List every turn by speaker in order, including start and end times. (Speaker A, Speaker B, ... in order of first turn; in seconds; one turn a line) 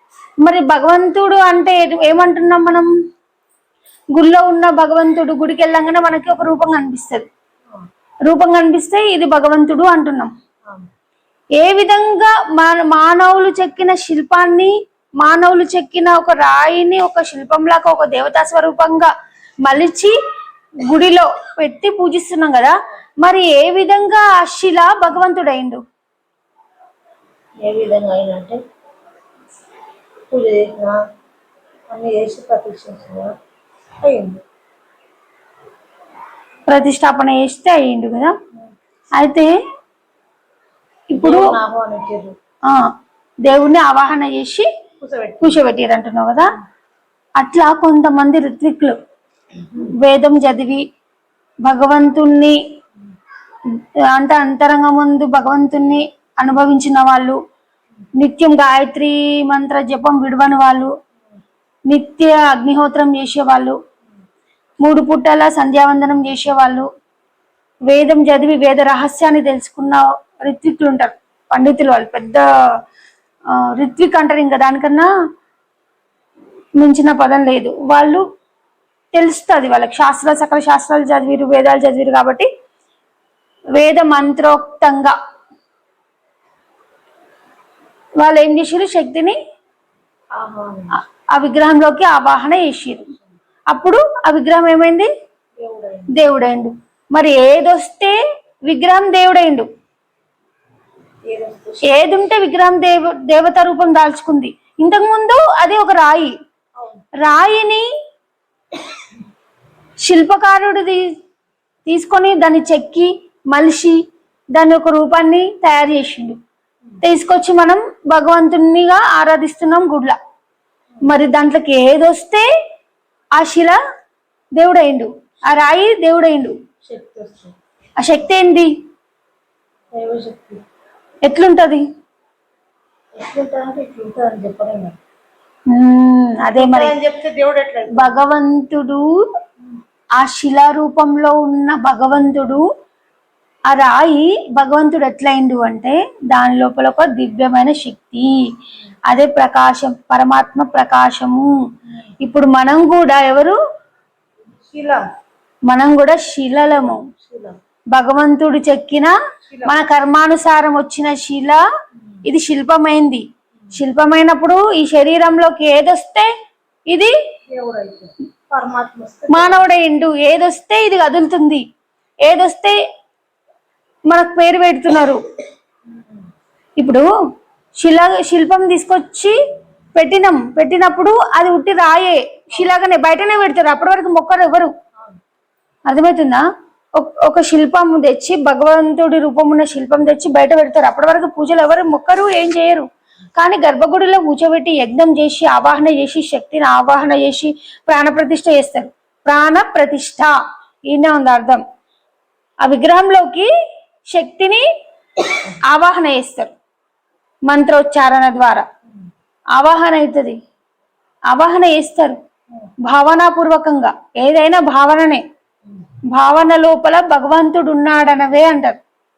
Speaker A: 0.4-2.9
Speaker A: 4.1-7.2
Speaker A: 8.3-10.3
Speaker A: 11.6-19.1
Speaker A: 19.6-20.1
Speaker A: 20.8-25.8
Speaker B: 27.6-28.6
Speaker B: 30.3-31.0
Speaker B: 31.9-33.4
Speaker B: 34.0-34.4
Speaker A: 36.7-38.4
Speaker A: 39.2-39.5
Speaker A: 41.1-41.5
Speaker B: 41.1-42.4
Speaker A: 43.5-44.7
Speaker B: 45.0-45.6
Speaker A: 45.4-46.6
Speaker A: 47.4-49.0
Speaker A: 49.9-50.9
Speaker A: 51.6-52.6
Speaker A: 53.7-57.4
Speaker A: 58.2-60.9
Speaker A: 61.9-63.8
Speaker A: 64.8-66.9
Speaker A: 67.9-72.4
Speaker A: 73.5-75.1
Speaker A: 76.8-78.2
Speaker A: 79.1-82.5
Speaker A: 83.8-85.2
Speaker A: 88.2-89.4
Speaker B: 90.3-91.0
Speaker A: 91.3-93.1
Speaker A: 93.7-95.1
Speaker B: 95.6-96.1
Speaker A: 96.1-99.7
Speaker B: 101.2-102.0
Speaker A: 101.8-106.3
Speaker A: 107.2-107.9
Speaker A: 110.0-111.0
Speaker A: 111.9-114.0
Speaker A: 114.5-116.4
Speaker A: 117.0-120.2
Speaker A: 121.0-122.5
Speaker A: 123.4-123.8
Speaker A: 124.6-126.5
Speaker B: 126.8-127.5
Speaker A: 128.0-128.7
Speaker B: 129.9-130.6
Speaker A: 131.2-131.9
Speaker B: 133.2-135.0
Speaker A: 135.7-136.9
Speaker B: 136.5-138.2
Speaker A: 137.9-139.1
Speaker A: 140.2-142.7
Speaker A: 143.7-148.4
Speaker A: 149.1-151.5
Speaker A: 152.2-153.6
Speaker B: 154.6-155.1
Speaker A: 155.7-157.1
Speaker B: 156.9-157.6
Speaker A: 157.9-161.6
Speaker B: 159.5-159.8
Speaker A: 162.3-163.2
Speaker A: 163.8-166.3
Speaker B: 167.5-169.7
Speaker A: 169.3-171.6
Speaker A: 172.3-172.8
Speaker A: 174.1-175.2
Speaker B: 175.9-176.3
Speaker A: 176.8-177.1
Speaker A: 177.8-179.3
Speaker A: 180.0-184.7
Speaker A: 185.9-186.4
Speaker A: 187.0-200.3
Speaker A: 200.9-201.6
Speaker A: 202.6-203.5
Speaker A: 204.1-204.6
Speaker A: 205.4-206.5
Speaker A: 207.5-208.6
Speaker A: 209.6-210.4
Speaker A: 211.3-212.2
Speaker A: 212.8-215.2
Speaker A: 216.1-218.8